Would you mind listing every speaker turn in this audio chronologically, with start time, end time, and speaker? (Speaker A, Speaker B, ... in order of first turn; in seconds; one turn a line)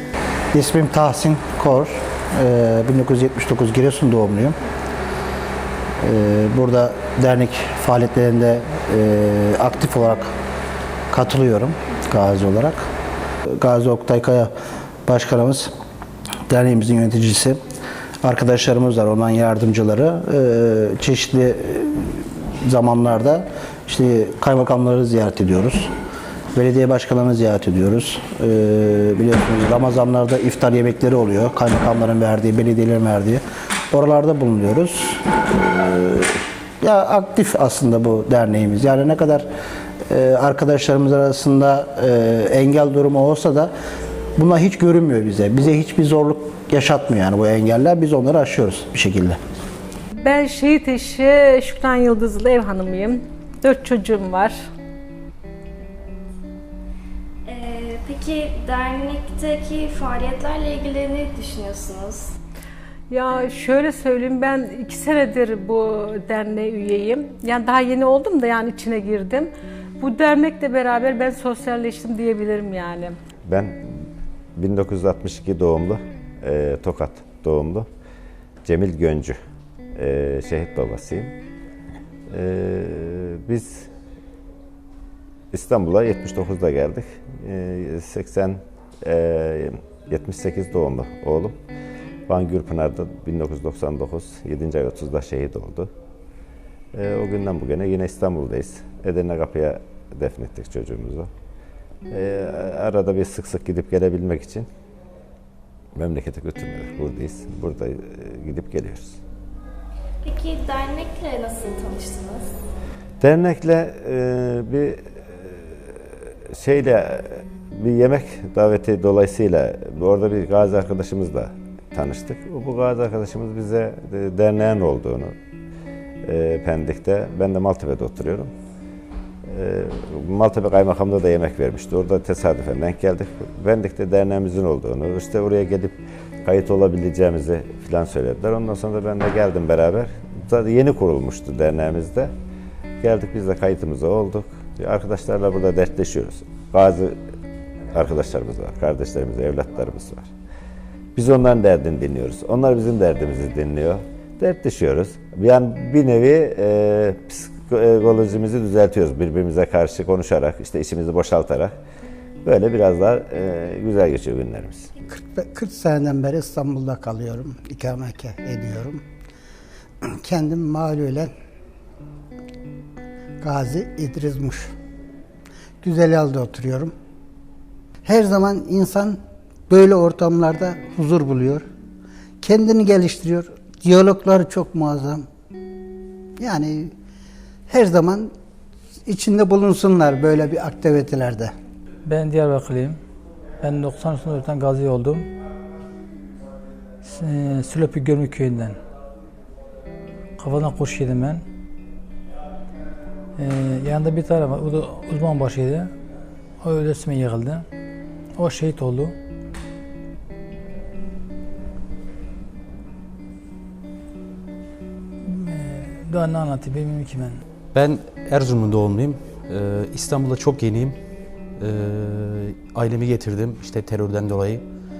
Speaker A: 0.5-4.5
Speaker A: 6.0-10.3
Speaker A: 11.1-12.8
Speaker A: 13.5-14.5
Speaker A: 15.1-15.7
Speaker A: 16.5-17.6
Speaker A: 18.2-25.9
Speaker A: 26.5-39.5
Speaker A: 40.1-43.7
Speaker A: 44.4-49.4
Speaker B: 50.2-54.7
Speaker C: 57.5-62.3
Speaker B: 63.1-73.2
Speaker D: 73.4-73.9
Speaker D: 74.5-77.9
Speaker D: 78.6-79.4
Speaker D: 79.9-81.3
Speaker D: 82.3-83.9
Speaker D: 85.5-91.6
Speaker D: 92.3-95.9
Speaker D: 96.9-101.3
Speaker D: 102.1-104.7
Speaker D: 105.9-109.2
Speaker C: 110.2-112.5
Speaker D: 113.2-115.6
Speaker D: 116.5-125.3
Speaker D: 126.2-128.5
Speaker D: 129.4-142.3
Speaker D: 143.0-147.2
Speaker D: 147.9-150.3
Speaker D: 151.1-161.7
Speaker D: 162.4-164.9
Speaker E: 165.1-169.0
Speaker E: 170.1-171.3
Speaker E: 173.4-174.7
Speaker E: 175.8-176.9
Speaker E: 178.0-181.7
Speaker E: 182.4-185.3
Speaker E: 186.4-186.9
Speaker E: 187.7-188.3
Speaker E: 189.1-191.5
Speaker F: 192.1-193.0
Speaker F: 193.6-195.3
Speaker F: 197.0-198.8
Speaker F: 200.4-201.4
Speaker F: 203.4-205.9
Speaker F: 206.6-207.7
Speaker F: 208.3-209.1
Speaker F: 215.2-217.4
Speaker G: 217.7-221.0
Speaker G: 221.6-224.6